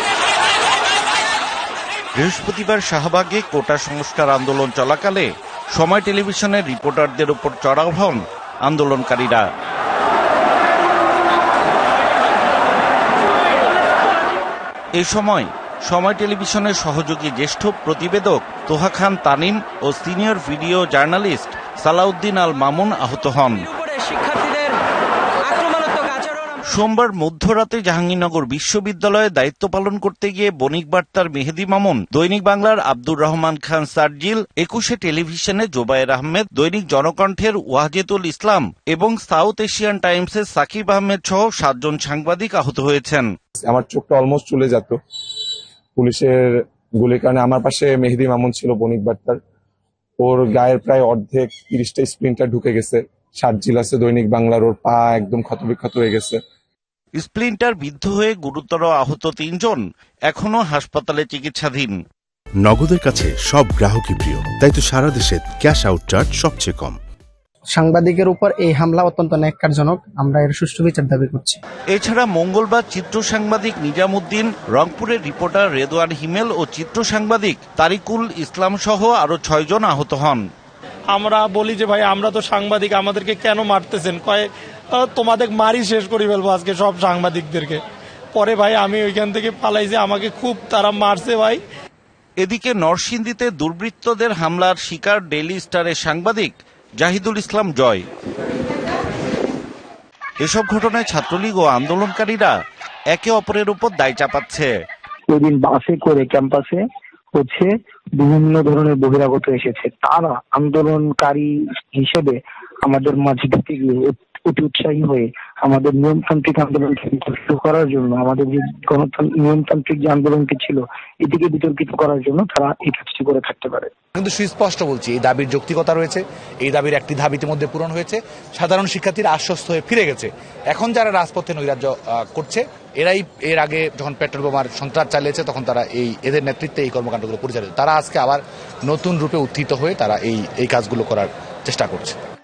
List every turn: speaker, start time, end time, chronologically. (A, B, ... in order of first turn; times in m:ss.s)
0:02.2-0:09.4 A
0:15.0-0:23.6 A
0:26.7-0:43.3 A
0:43.6-0:45.0 B
0:46.0-0:49.4 B
0:50.2-0:56.4 B
0:57.2-1:02.0 A
1:02.6-1:07.0 C
1:07.7-1:11.6 D
1:11.9-1:20.4 A
1:21.1-1:27.8 E
1:28.4-1:31.6 E
1:32.4-1:38.0 A
1:40.4-1:42.5 A
1:43.1-1:44.7 A
1:45.4-1:46.8 F
1:47.4-1:47.7 F
1:48.2-1:52.3 F
1:52.8-2:03.8 F
2:04.2-2:22.2 G